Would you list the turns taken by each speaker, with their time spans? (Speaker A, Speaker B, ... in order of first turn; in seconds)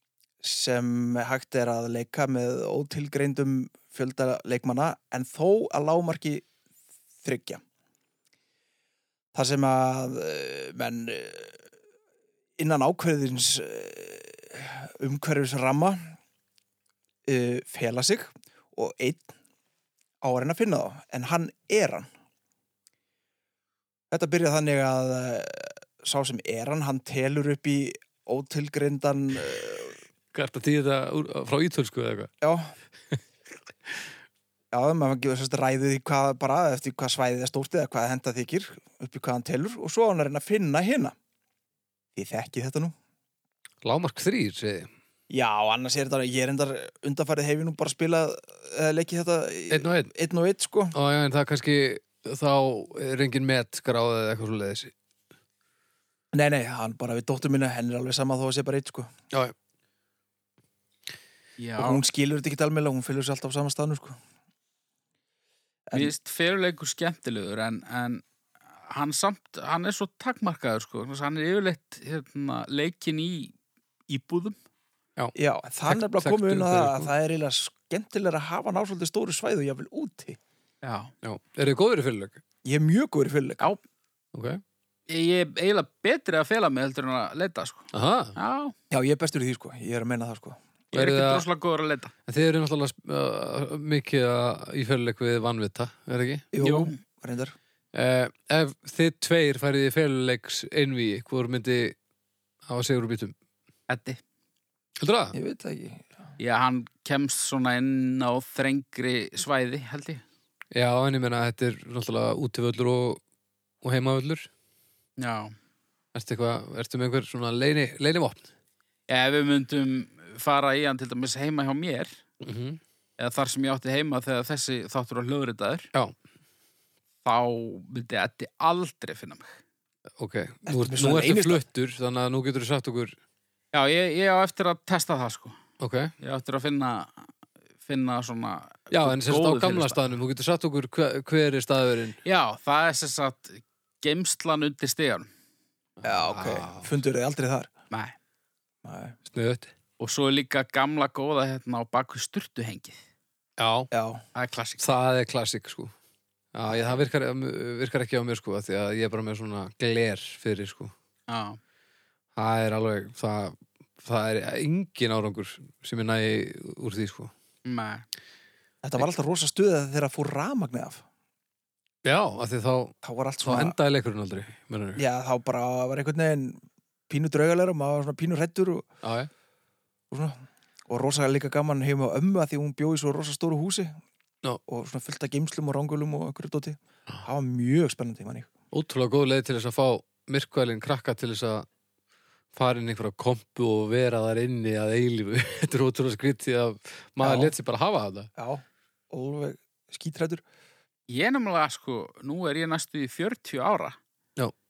Speaker A: 0.4-6.5, 7.2-7.6, 9.3-11.6, 12.6-16.1, 17.3-19.3, 20.2-22.1, 24.1-30.0, 32.4-32.7, 34.7-41.1, 42.2-42.9, 45.3-51.0, 56.3-59.1, 61.8-64.2, 75.3-80.4, 82.6-83.7, 88.9-90.6, 96.5-97.6, 105.3-106.1, 130.7-131.6, 146.0-147.7, 148.8-149.2, 153.9-154.2, 156.7-157.0, 168.8-171.0, 173.0-173.8, 175.0-178.9, 180.1-184.0, 184.7-188.5, 197.2-197.5, 198.4-200.4
Speaker B: 30.3-32.3, 43.8-44.9, 49.7-50.1, 50.9-54.9, 75.9-77.1, 81.2-82.4, 84.3-84.6, 87.9-88.3, 90.9-91.5, 92.3-96.5, 97.9-102.0, 102.7-103.3, 105.0-105.3, 110.7-113.2, 113.8-114.5, 116.1-118.5, 122.4-122.8, 130.2-133.2, 135.8-136.1, 138.9-142.2, 146.0-146.9, 149.3-149.7, 153.6-153.9, 154.8-155.9, 156.5-160.9, 162.3-167.3, 172.0-175.0, 179.0-179.3, 188.7-191.7, 192.5-198.3
Speaker C: 61.6-62.0, 65.9-68.2, 68.9-73.5, 74.1-74.6, 80.8-81.1, 85.1-88.7, 90.9-92.1, 96.6-97.0, 103.9-104.2, 106.4-110.2, 115.2-115.5, 119.1-122.2, 123.2-125.9, 127.2-129.6, 133.7-135.6, 136.2-137.3, 137.8-140.0, 142.2-145.3, 147.9-148.2, 150.0-153.0, 154.3-154.9, 161.3-161.6, 167.7-168.1, 201.1-204.0